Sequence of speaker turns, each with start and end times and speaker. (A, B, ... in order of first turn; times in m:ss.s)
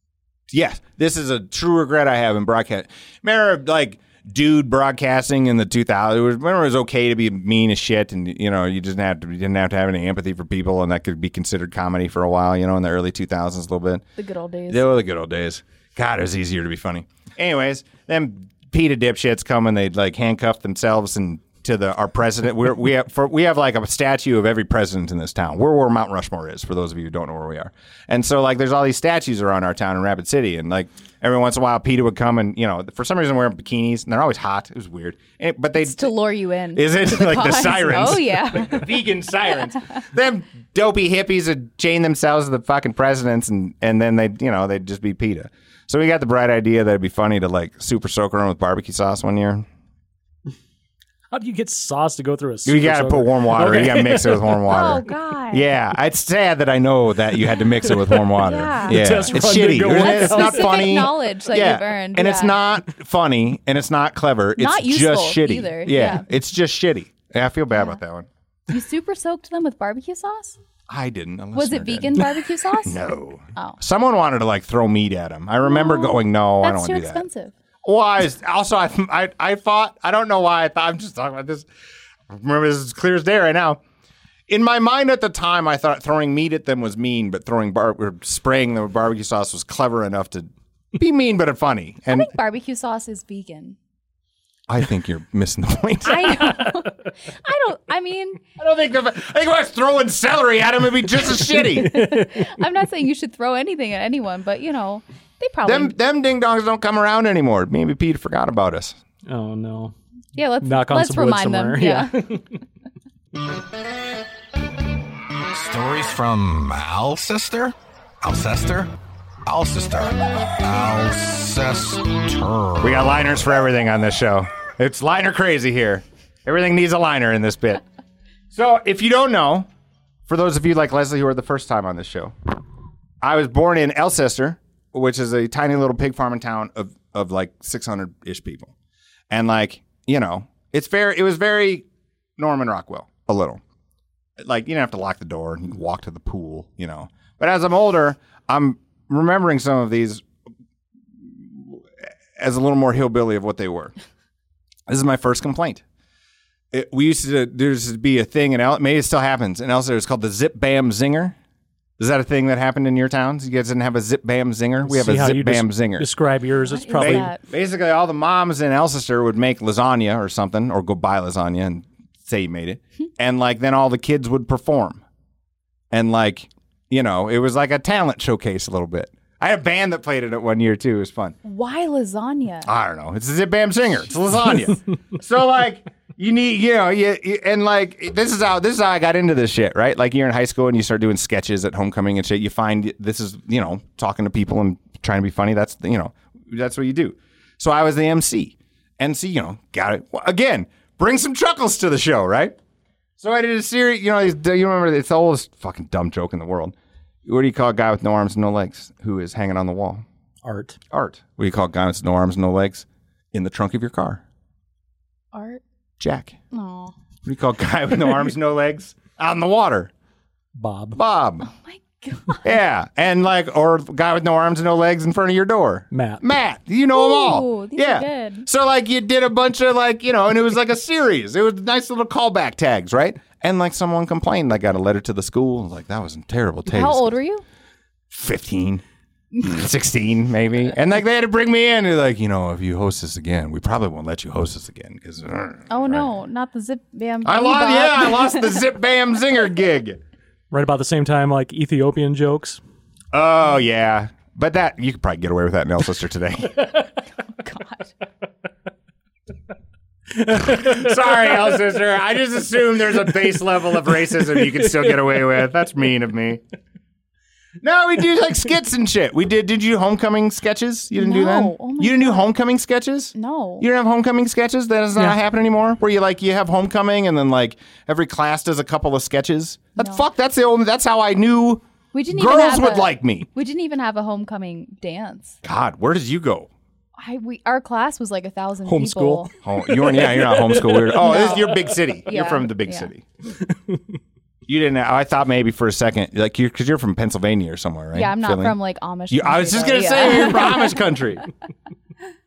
0:00.5-0:14.0 A
0:14.2-0:14.9 B
0:14.7-0:36.1 A
0:35.8-0:38.9 B
0:36.7-0:49.7 A
0:51.3-0:54.6 C
0:52.6-1:08.3 A
0:54.7-0:55.7 B
0:57.9-1:00.9 C
0:58.4-0:59.0 B
0:59.9-1:02.6 B
1:04.6-1:06.2 B
1:08.7-1:10.6 B
1:10.9-1:12.3 A
1:11.5-1:13.0 B
1:12.8-1:17.2 A
1:15.6-1:17.5 B
1:17.8-1:21.7 A
1:22.3-1:23.8 A
1:24.5-1:32.3 A
1:32.1-1:33.8 B
1:34.7-1:36.6 A
1:36.0-1:38.4 B
1:38.6-1:41.9 A
1:41.5-1:45.9 B
1:41.9-1:42.3 C
1:45.6-1:49.0 A
1:49.3-1:49.9 C
1:50.3-1:52.3 B
1:50.6-1:52.4 C
1:55.5-1:58.9 D
1:59.4-2:03.3 D
2:02.8-2:07.8 A
2:08.5-2:09.7 A
2:10.3-2:12.3 A
2:13.2-2:18.7 A
2:19.3-2:21.8 A
2:22.4-2:23.6 A
2:24.4-2:30.2 A
2:31.2-2:31.8 A
2:32.4-2:33.9 A
2:34.9-2:35.8 A
2:36.7-2:41.4 A
2:42.0-2:46.1 A
2:44.8-2:47.3 C
2:46.6-2:47.4 B
2:47.0-2:55.0 A
2:55.9-3:01.4 A
3:01.4-3:02.7 B
3:02.6-3:22.6 A
3:23.2-3:30.0 A
3:30.4-3:30.8 C
3:30.9-3:34.2 A
3:35.3-3:35.6 B
3:36.0-3:36.3 A
3:36.5-3:36.9 B
3:37.2-3:39.9 A
3:40.6-3:41.0 C
3:40.9-3:41.5 A
3:41.5-3:42.4 B
3:42.4-3:57.1 A
3:45.9-3:46.2 C
3:46.9-3:48.4 B
3:56.7-3:57.4 B
3:58.1-3:58.8 A
3:59.4-4:06.1 A
4:05.7-4:08.6 B
4:07.2-4:10.0 A
4:10.5-4:12.6 C
4:13.1-4:16.7 A
4:17.4-4:17.9 B
4:20.2-4:20.7 C
4:20.3-4:26.4 A
4:27.6-4:43.3 A
4:31.0-4:32.3 B
4:33.1-4:33.7 B
4:39.8-4:40.0 B
4:41.9-4:45.4 B
4:45.4-4:46.5 A
4:47.0-4:49.3 B
4:48.6-4:51.2 C
4:49.4-4:53.0 A
4:51.0-4:52.9 B
4:54.5-4:58.6 A
4:57.9-5:00.8 B
4:59.1-5:01.2 A